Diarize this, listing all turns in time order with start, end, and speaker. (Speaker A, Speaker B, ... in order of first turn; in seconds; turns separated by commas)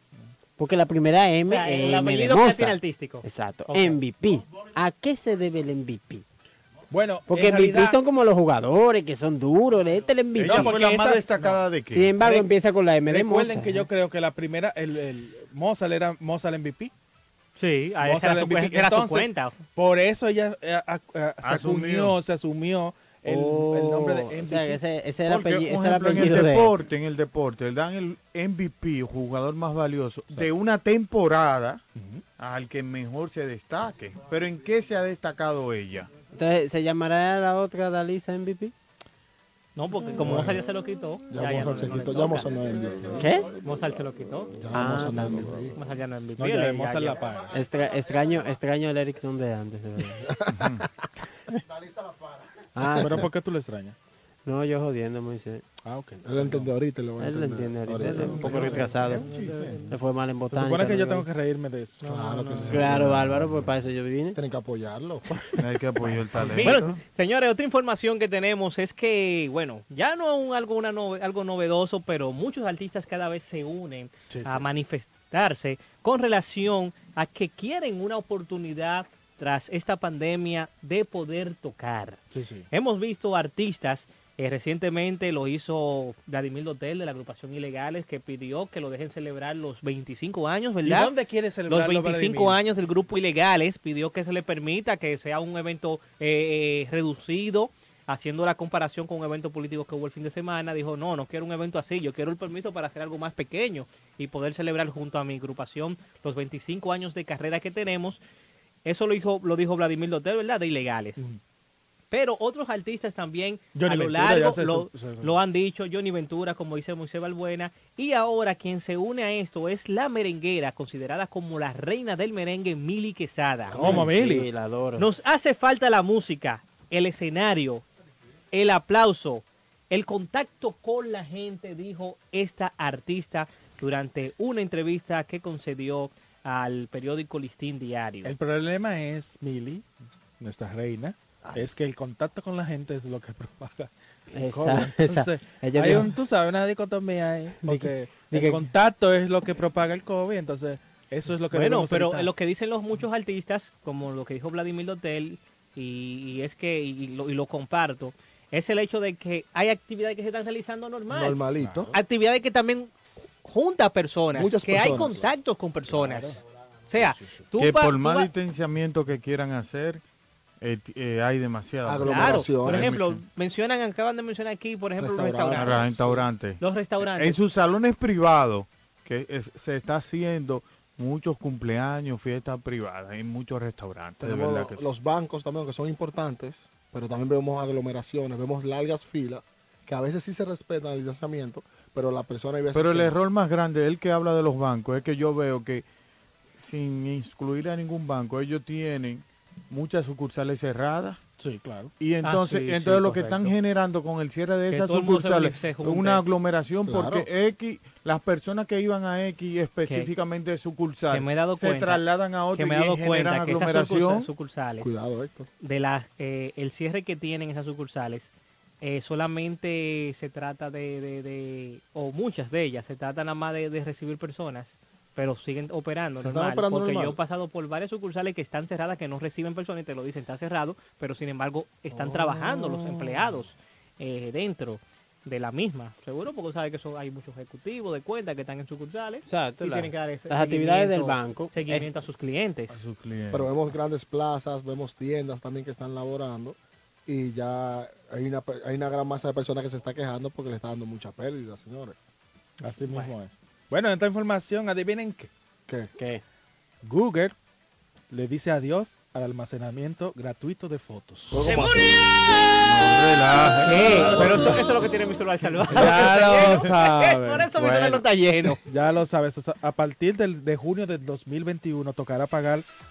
Speaker A: 0.6-6.2, Speaker B: 1.5-4.0, Speaker C: 6.9-8.0, Speaker A: 7.3-10.8, Speaker D: 10.3-12.2, Speaker C: 10.4-11.6, Speaker A: 11.9-13.9, Speaker C: 12.2-12.5, Speaker C: 13.1-16.9, Speaker B: 17.6-19.6, Speaker C: 18.0-24.8, Speaker D: 21.4-22.2, Speaker A: 23.3-26.7, Speaker D: 25.2-31.8, Speaker C: 31.9-32.2, Speaker D: 32.4-36.1, Speaker A: 36.3-38.7, Speaker B: 39.8-42.5, Speaker E: 41.3-43.3, Speaker A: 43.2-43.5, Speaker B: 43.6-44.5, Speaker E: 44.5-45.8, Speaker A: 44.7-45.5, Speaker B: 45.8-47.2, Speaker C: 46.4-47.5, Speaker A: 47.5-50.3, Speaker D: 50.5-50.8, Speaker A: 52.8-53.3, Speaker C: 53.0-54.0, Speaker A: 54.4-55.6, Speaker C: 55.8-56.7, Speaker E: 56.2-59.4, Speaker A: 57.2-61.3, Speaker C: 58.3-59.8, Speaker C: 60.5-62.8, Speaker E: 62.0-63.0, Speaker D: 62.7-63.6, Speaker A: 62.7-64.4, Speaker E: 64.3-65.2, Speaker D: 65.6-66.8, Speaker C: 66.3-67.0, Speaker B: 66.6-82.2, Speaker C: 74.3-74.7, Speaker C: 82.3-82.7, Speaker B: 82.7-91.1, Speaker C: 90.8-92.6, Speaker B: 91.7-108.2, Speaker B: 108.8-111.2, Speaker B: 112.1-124.0, Speaker C: 113.7-115.4, Speaker A: 123.7-125.1, Speaker C: 123.8-124.5, Speaker B: 125.0-127.8, Speaker B: 128.5-138.3, Speaker C: 138.2-139.8, Speaker C: 140.4-152.3, Speaker A: 144.3-146.1, Speaker A: 147.6-148.7, Speaker B: 151.5-161.4, Speaker E: 161.1-161.9, Speaker C: 161.6-161.9, Speaker B: 161.9-168.3, Speaker E: 164.3-165.3, Speaker E: 165.9-166.3, Speaker C: 166.9-167.4, Speaker D: 167.6-170.0, Speaker D: 170.6-173.2, Speaker E: 171.8-173.0, Speaker B: 172.0-175.9, Speaker E: 175.0-176.2, Speaker D: 175.6-176.6, Speaker B: 176.6-177.4, Speaker D: 177.1-184.8, Speaker E: 184.2-193.1, Speaker D: 192.7-195.8, Speaker D: 196.6-201.2, Speaker C: 201.4-201.9, Speaker D: 202.0-214.3, Speaker B: 202.2-203.2, Speaker C: 202.8-203.5, Speaker B: 204.7-206.2, Speaker E: 206.9-207.3, Speaker B: 211.1-214.9, Speaker E: 214.8-215.5, Speaker B: 215.6-218.3, Speaker B: 218.8-242.8, Speaker E: 226.2-227.2, Speaker A: 231.9-232.9, Speaker A: 239.3-241.9, Speaker D: 242.7-243.5, Speaker E: 243.3-251.9, Speaker C: 252.6-255.3, Speaker C: 256.8-257.3, Speaker C: 258.1-261.6, Speaker E: 261.3-262.0, Speaker D: 262.6-264.4, Speaker B: 263.6-268.6, Speaker C: 263.7-264.7, Speaker C: 265.6-268.0, Speaker C: 268.6-272.6